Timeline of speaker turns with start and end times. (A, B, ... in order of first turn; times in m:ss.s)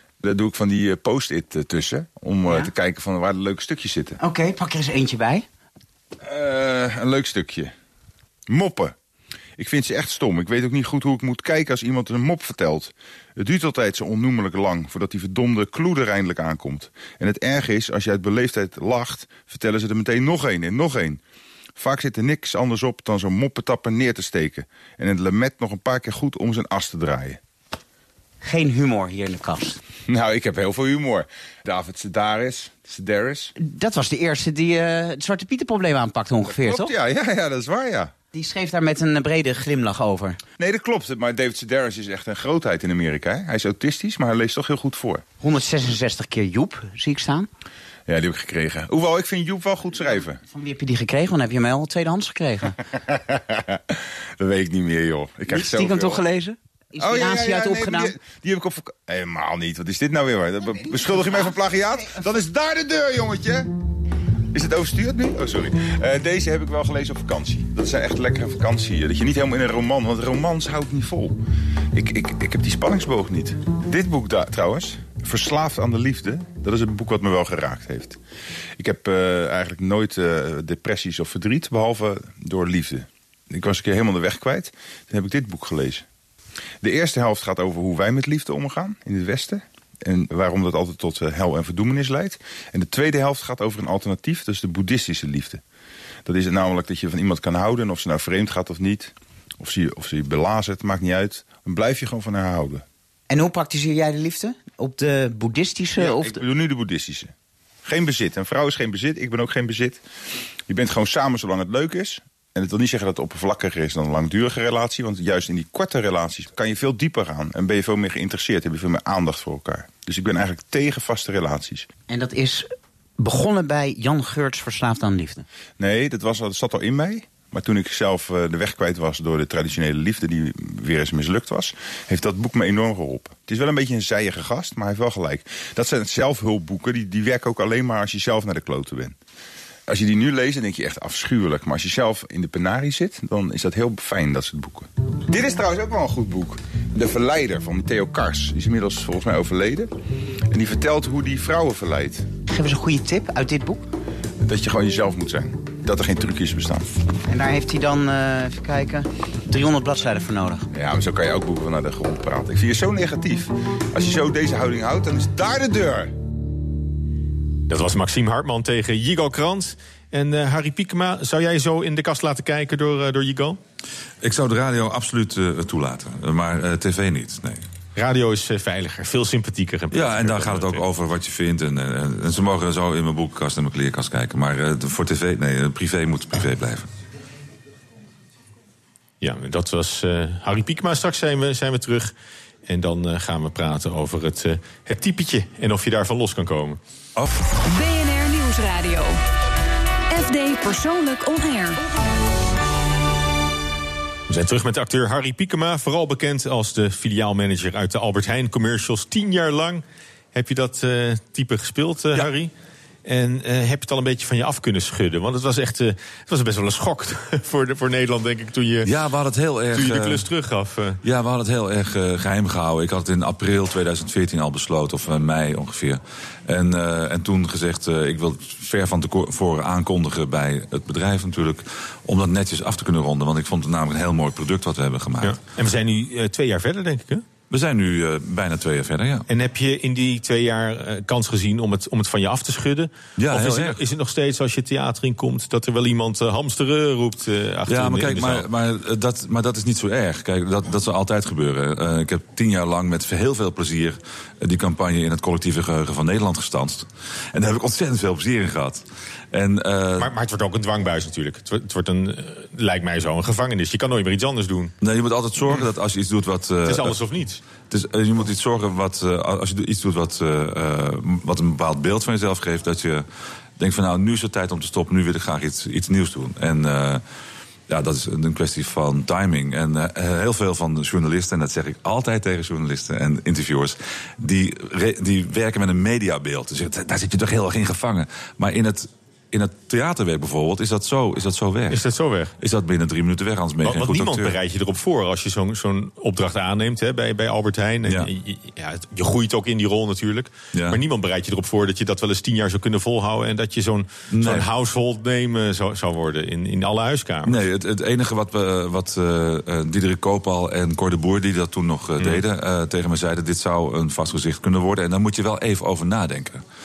0:00.2-0:04.2 A
0:02.4-0:02.7 B
0:04.2-0:05.4 B
0:06.2-0:07.7 A
0:08.5-0:08.9 A
0:09.6-0:21.2 A
0:21.8-0:27.4 A
0:28.4-0:29.8 B
0:30.1-0:33.5 A
0:33.6-0:36.9 B
0:36.5-0:38.1 A
0:38.3-0:40.4 B
0:40.6-0:45.3 A
0:45.4-0:47.5 B
0:48.1-0:50.4 A
0:50.5-0:52.7 B
0:53.1-0:53.8 A
0:54.4-0:56.2 A
0:55.5-0:58.2 B
0:57.0-1:03.7 A
1:00.7-1:02.2 B
1:04.5-1:11.4 A
1:11.9-1:18.2 A
1:18.8-1:26.0 A
1:26.8-1:35.6 A
1:36.2-1:42.8 A
1:43.3-1:46.4 B
1:46.0-1:47.3 A
1:47.8-1:50.0 A
1:50.7-2:01.9 A
2:02.1-2:05.4 B
2:05.8-2:19.2 A
2:19.9-2:29.9 A
2:30.5-2:32.3 A
2:32.5-2:33.8 B
2:34.4-2:36.9 A
2:37.3-2:40.7 B
2:40.7-2:46.2 A
2:47.7-2:53.6 C
2:54.2-2:57.6 D
2:57.9-3:00.8 C
2:59.9-3:06.9 D
3:09.2-3:12.1 C
3:12.7-3:16.8 C
3:17.6-3:19.2 E
3:20.1-3:21.9 E
3:24.3-3:29.8 C
3:30.3-3:32.5 C
3:33.0-3:38.9 C
3:38.8-3:40.3 D
3:39.7-3:41.0 C
3:41.0-3:55.4 D
3:55.2-3:57.2 C
3:57.5-3:59.3 D
3:59.3-4:08.4 C
4:03.2-4:03.8 D
4:07.7-4:20.1 D
4:20.0-4:24.7 C
4:24.8-4:27.0 D
4:26.6-4:27.4 C
4:27.7-4:33.0 D
4:33.6-4:37.0 D
4:37.7-4:51.8 D
4:51.7-4:52.3 C
4:52.4-4:54.4 D
4:53.6-5:07.4 C
5:00.5-5:00.8 D
5:04.1-5:04.5 D
5:07.2-5:16.4 D